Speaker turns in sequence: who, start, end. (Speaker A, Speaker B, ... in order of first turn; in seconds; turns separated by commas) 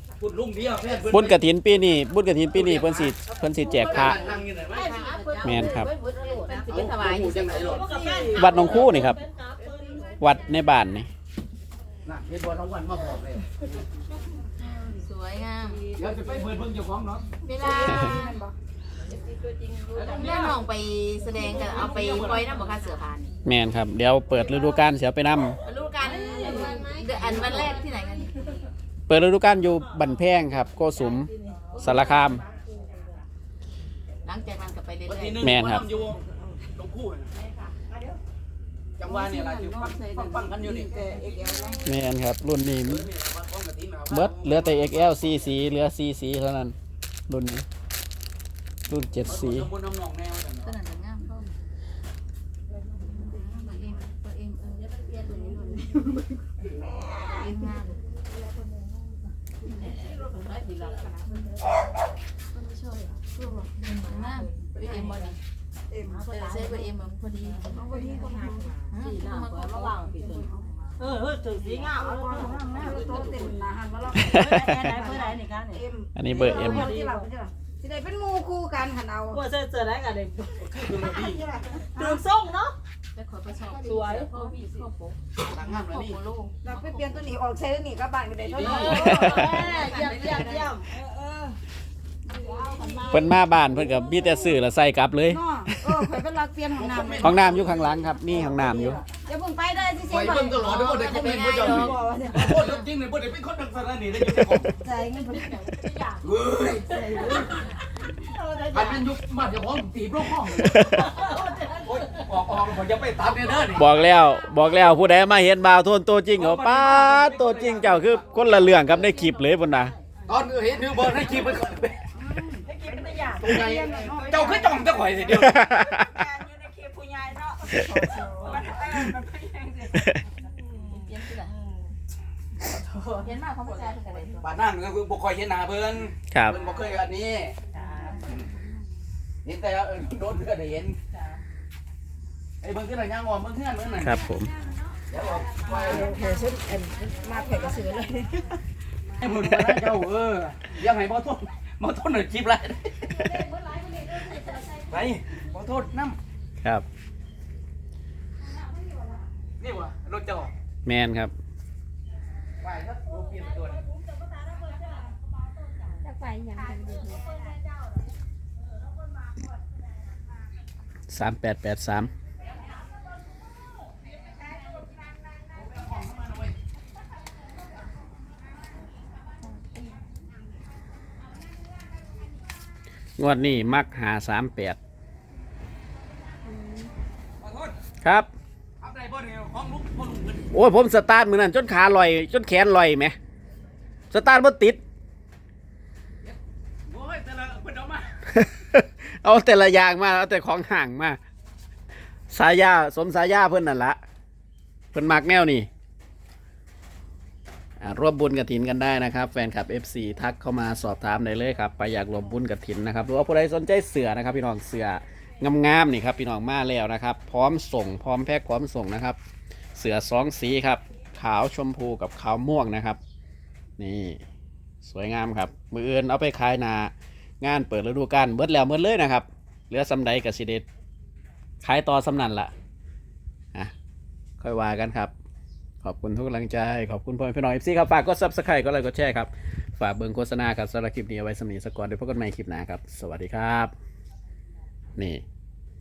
Speaker A: 0.2-1.4, Speaker B: 1.1-4.2, Speaker A: 2.5-5.0, Speaker C: 4.7-6.6, Speaker D: 4.7-8.4, Speaker B: 5.4-5.9, Speaker A: 6.7-8.9, Speaker C: 7.5-10.3, Speaker B: 8.3-9.2, Speaker B: 10.2-11.1, Speaker A: 12.1-13.7, Speaker D: 14.9-15.9, Speaker A: 15.9-17.3, Speaker D: 17.4-18.4, Speaker E: 17.6-18.5, Speaker B: 17.9-18.1, Speaker C: 19.3-20.6, Speaker A: 19.9-20.6, Speaker D: 20.0-23.3, Speaker A: 21.4-22.6, Speaker C: 21.5-22.6, Speaker B: 23.4-25.6, Speaker D: 25.6-28.6, Speaker C: 26.0-28.2, Speaker B: 29.1-32.4, Speaker C: 31.0-33.2, Speaker D: 34.2-35.6, Speaker A: 35.0-36.2, Speaker B: 35.4-35.9, Speaker A: 36.8-37.3, Speaker C: 37.4-38.1, Speaker A: 39.0-41.2, Speaker E: 39.0-41.9, Speaker B: 41.9-43.0, Speaker A: 42.8-45.6, Speaker B: 44.1-46.8, Speaker B: 47.3-47.6, Speaker B: 48.9-49.7, Speaker A: 49.3-50.7, Speaker D: 50.6-51.5, Speaker D: 53.2-56.2, Speaker E: 53.2-53.7, Speaker D: 57.4-58.0, Speaker C: 59.7-61.6, Speaker D: 62.5-63.1, Speaker E: 63.3-63.7, Speaker C: 63.8-65.3, Speaker D: 63.8-65.4, Speaker E: 65.9-66.2, Speaker C: 66.1-66.9, Speaker D: 66.3-67.7, Speaker C: 67.7-73.4, Speaker E: 67.7-68.8, Speaker D: 68.9-70.0, Speaker E: 70.2-70.9, Speaker E: 71.6-79.4, Speaker A: 72.8-73.5, Speaker C: 74.2-77.3, Speaker B: 74.3-74.8, Speaker B: 76.2-76.9, Speaker C: 79.3-80.9, Speaker A: 80.6-81.5, Speaker E: 81.0-82.2, Speaker C: 81.9-82.8, Speaker D: 83.2-87.2, Speaker C: 83.7-84.3, Speaker A: 85.4-86.2, Speaker E: 86.6-91.5, Speaker A: 88.5-89.7, Speaker C: 88.6-90.9, Speaker B: 89.0-89.6, Speaker D: 89.1-90.7, Speaker E: 92.3-93.3, Speaker C: 92.4-93.2, Speaker D: 92.8-93.2, Speaker B: 93.1-96.1, Speaker E: 95.3-97.5, Speaker A: 96.7-98.1, Speaker B: 97.2-99.0, Speaker E: 98.3-102.8, Speaker A: 100.1-104.7, Speaker D: 100.6-102.0, Speaker E: 104.8-105.7, Speaker C: 104.8-106.2, Speaker A: 106.2-107.5, Speaker E: 106.8-107.6, Speaker C: 106.9-109.0, Speaker A: 108.7-113.9, Speaker B: 110.6-111.2, Speaker C: 110.8-112.2, Speaker B: 113.7-119.9, Speaker A: 116.3-118.6, Speaker D: 118.4-119.3, Speaker A: 120.3-122.1, Speaker E: 122.1-125.0, Speaker C: 122.7-130.1, Speaker A: 123.3-125.8, Speaker B: 125.4-126.0, Speaker E: 127.7-128.8, Speaker D: 130.8-131.5, Speaker D: 133.1-134.5, Speaker C: 133.7-134.4, Speaker A: 134.4-137.6, Speaker B: 136.3-136.6, Speaker C: 137.7-138.4, Speaker A: 139.4-141.0, Speaker A: 142.6-144.2, Speaker B: 144.0-144.5, Speaker A: 145.1-146.2, Speaker C: 145.5-146.3, Speaker E: 145.7-148.6, Speaker C: 147.2-147.6, Speaker A: 149.2-153.5, Speaker B: 149.4-149.9, Speaker A: 154.8-156.2, Speaker A: 159.6-160.5, Speaker B: 160.9-161.3, Speaker A: 162.6-163.8, Speaker C: 163.4-165.3, Speaker E: 166.0-167.3, Speaker C: 166.7-168.0, Speaker B: 171.1-172.1, Speaker A: 175.5-176.6, Speaker B: 183.2-184.8, Speaker A: 187.4-187.8, Speaker B: 188.0-188.3, Speaker A: 188.8-190.5, Speaker B: 190.5-193.2, Speaker B: 194.1-194.8, Speaker A: 196.2-198.2, Speaker B: 198.3-201.2, Speaker B: 202.3-204.0, Speaker B: 204.9-205.7, Speaker B: 207.8-219.2, Speaker B: 219.8-223.0, Speaker B: 223.8-224.2, Speaker B: 224.8-230.7, Speaker B: 231.6-232.5, Speaker B: 234.4-235.1, Speaker B: 235.8-243.7, Speaker B: 245.0-245.2